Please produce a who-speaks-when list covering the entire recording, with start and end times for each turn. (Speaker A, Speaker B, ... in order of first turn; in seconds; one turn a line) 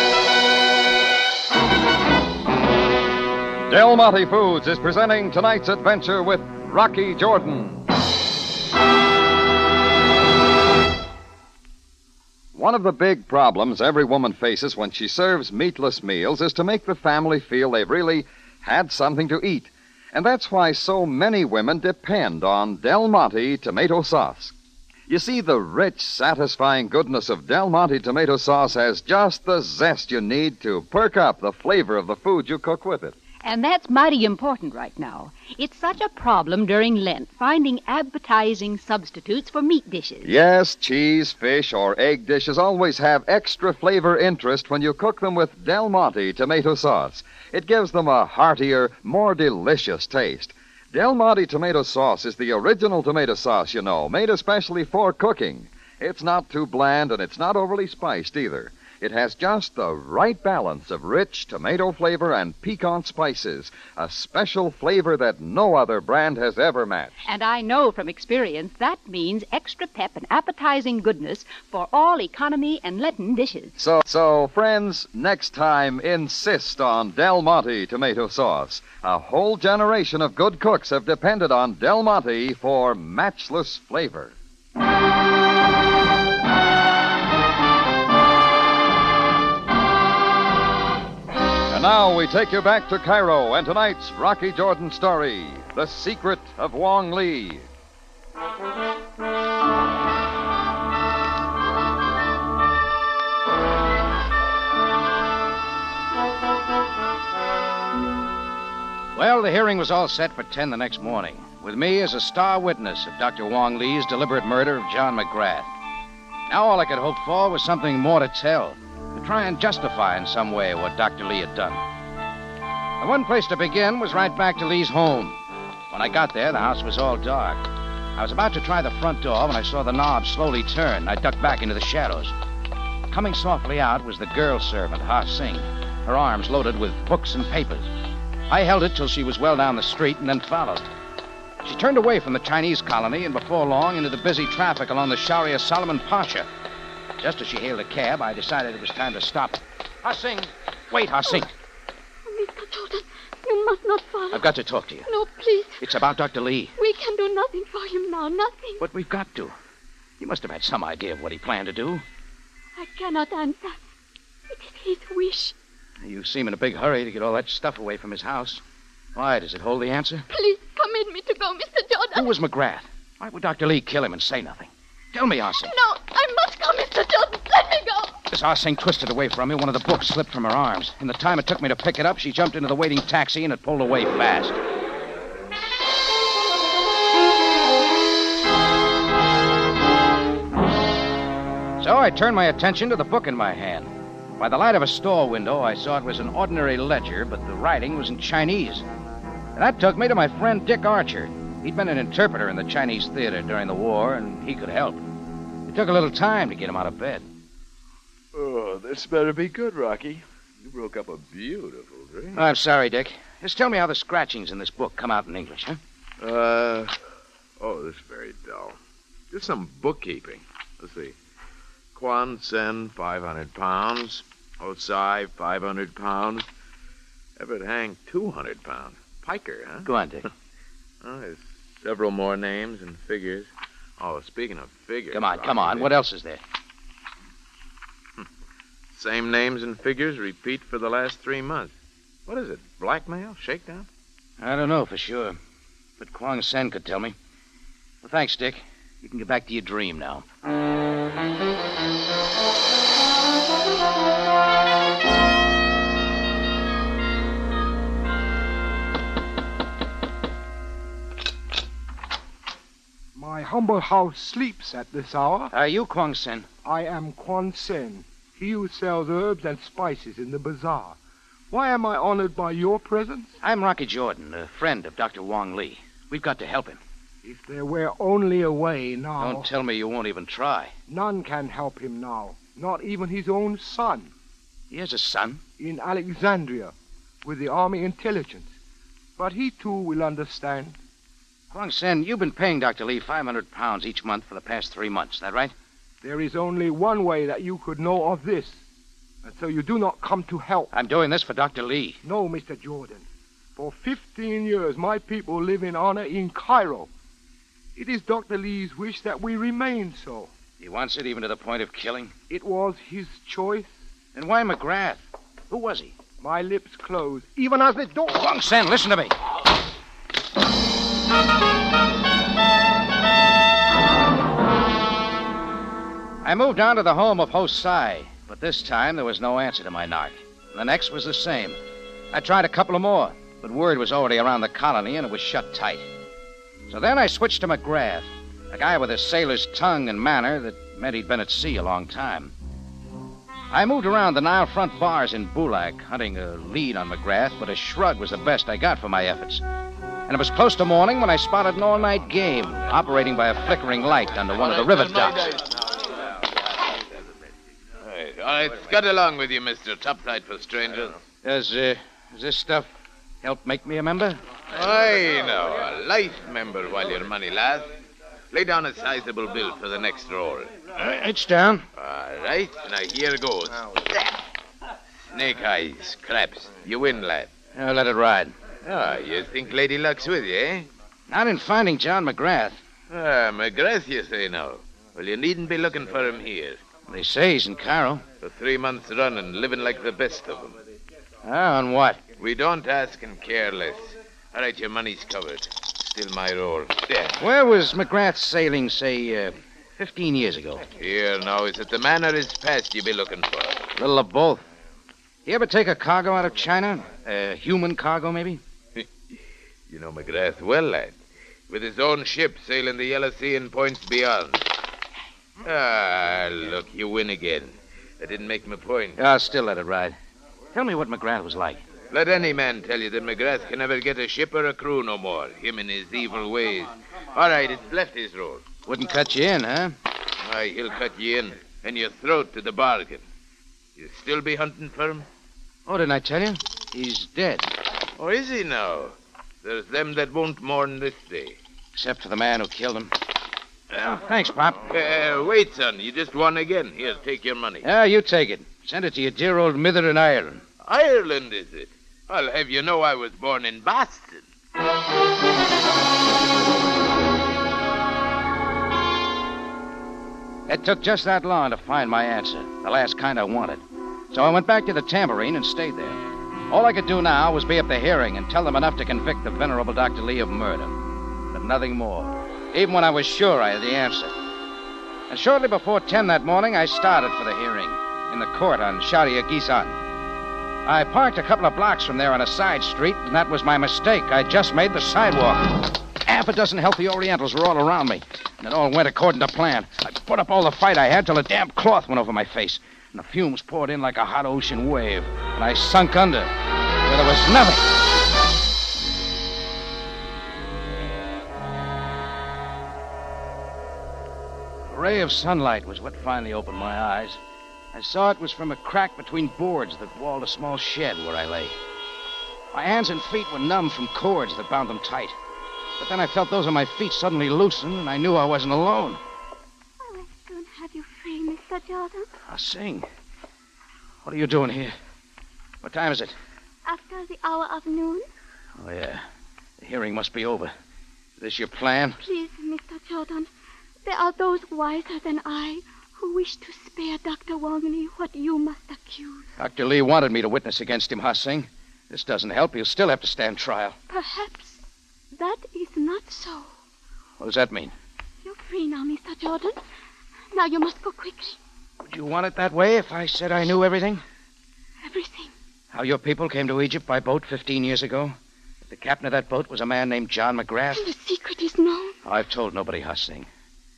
Speaker A: 3.7-7.8
Speaker A: 12.5-24.5
Speaker A: 25.1-33.1
Speaker B: 33.4-40.3
Speaker A: 40.2-67.1
Speaker B: 67.3-73.8
Speaker A: 73.8-84.3
Speaker A: 91.7-97.7
Speaker C: 109.1-115.7
Speaker C: 116.5-121.8
Speaker C: 123.0-125.4
Speaker C: 125.9-127.6
Speaker C: 128.2-132.3
Speaker C: 133.1-137.9
Speaker C: 138.5-140.8
Speaker C: 141.6-146.5
Speaker C: 147.2-151.5
Speaker D: 152.3-154.5
Speaker C: 154.3-155.1
Speaker D: 155.1-155.8
Speaker C: 155.8-156.7
Speaker D: 156.8-158.8
Speaker C: 158.8-159.5
Speaker C: 160.2-162.0
Speaker D: 162.8-163.8
Speaker D: 164.5-165.5
Speaker C: 166.0-168.6
Speaker C: 169.1-170.2
Speaker D: 170.3-172.3
Speaker C: 172.1-175.7
Speaker D: 175.6-178.2
Speaker C: 178.3-184.6
Speaker C: 191.8-198.8
Speaker C: 199.6-205.0
Speaker C: 205.7-207.3
Speaker E: 208.3-212.4
Speaker C: 212.3-215.8
Speaker E: 216.2-216.9
Speaker E: 217.6-218.8
Speaker E: 219.3-221.1
Speaker E: 221.9-226.4
Speaker E: 227.4-229.8
Speaker C: 229.8-230.3
Speaker E: 231.0-235.9
Speaker C: 235.1-236.4
Speaker E: 238.9-241.7
Speaker E: 242.3-243.9
Speaker C: 244.4-245.4
Speaker C: 246.0-247.1
Speaker C: 248.0-250.2
Speaker F: 263.1-265.5
Speaker C: 265.5-266.4
Speaker F: 266.6-271.0
Speaker F: 271.5-273.3
Speaker C: 273.4-276.8
Speaker F: 277.2-279.5
Speaker C: 279.2-280.7
Speaker F: 280.9-284.1
Speaker C: 284.7-285.4
Speaker F: 285.6-286.7
Speaker F: 287.2-288.5
Speaker F: 289.2-290.8
Speaker C: 291.5-295.5
Speaker F: 296.0-298.6
Speaker F: 299.2-300.7
Speaker C: 300.7-302.0
Speaker F: 302.0-306.9
Speaker F: 307.8-310.3
Speaker C: 310.6-312.1
Speaker F: 312.3-313.7
Speaker C: 314.1-315.9
Speaker F: 316.2-318.3
Speaker C: 318.1-319.1
Speaker C: 326.2-331.6
Speaker C: 332.1-335.8
Speaker C: 336.7-342.3
Speaker C: 343.5-349.4
Speaker C: 350.1-355.2
Speaker E: 354.4-355.5
Speaker E: 357.8-361.0
Speaker C: 361.2-362.7
Speaker C: 363.2-364.2
Speaker E: 364.5-367.7
Speaker E: 368.3-370.6
Speaker C: 370.8-371.6
Speaker E: 371.8-374.1
Speaker E: 375.1-377.3
Speaker C: 377.5-378.3
Speaker E: 378.6-380.7
Speaker C: 381.1-382.6
Speaker E: 382.9-386.6
Speaker C: 386.9-388.0
Speaker E: 388.2-390.6
Speaker C: 391.2-392.0
Speaker E: 392.2-397.1
Speaker C: 397.2-400.6
Speaker E: 400.8-403.6
Speaker C: 403.8-404.4
Speaker C: 405.2-408.4
Speaker E: 409.7-410.9
Speaker E: 411.5-414.4
Speaker E: 415.4-419.0
Speaker C: 419.0-420.0
Speaker C: 420.5-421.6
Speaker E: 421.9-428.4
Speaker C: 428.6-429.7
Speaker E: 430.2-433.0
Speaker E: 433.8-435.1
Speaker C: 435.6-437.5
Speaker E: 437.9-441.4
Speaker C: 441.7-442.9
Speaker C: 443.7-444.6
Speaker E: 444.7-447.6
Speaker C: 447.6-450.4
Speaker E: 450.6-454.2
Speaker C: 460.5-463.6
Speaker C: 464.1-470.7
Speaker C: 471.3-474.1
Speaker C: 475.1-479.8
Speaker C: 480.6-496.3
Speaker C: 496.8-497.7
Speaker C: 504.7-507.2
Speaker C: 507.7-511.5
Speaker C: 512.5-515.1
Speaker C: 515.8-519.0
Speaker D: 519.8-522.1
Speaker C: 522.3-522.9
Speaker C: 524.0-524.7
Speaker C: 525.6-526.1
Speaker D: 526.6-528.1
Speaker C: 528.6-529.0
Speaker C: 529.6-530.5
Speaker C: 531.2-532.0
Speaker D: 532.0-533.3
Speaker D: 533.8-539.2
Speaker C: 539.4-543.8
Speaker D: 543.9-544.6
Speaker D: 545.1-546.5
Speaker C: 547.2-547.7
Speaker D: 548.2-549.6
Speaker D: 550.3-551.4
Speaker C: 551.8-554.0
Speaker D: 554.8-555.3
Speaker C: 555.7-558.1
Speaker C: 558.7-560.9
Speaker D: 560.7-561.9
Speaker C: 562.0-563.3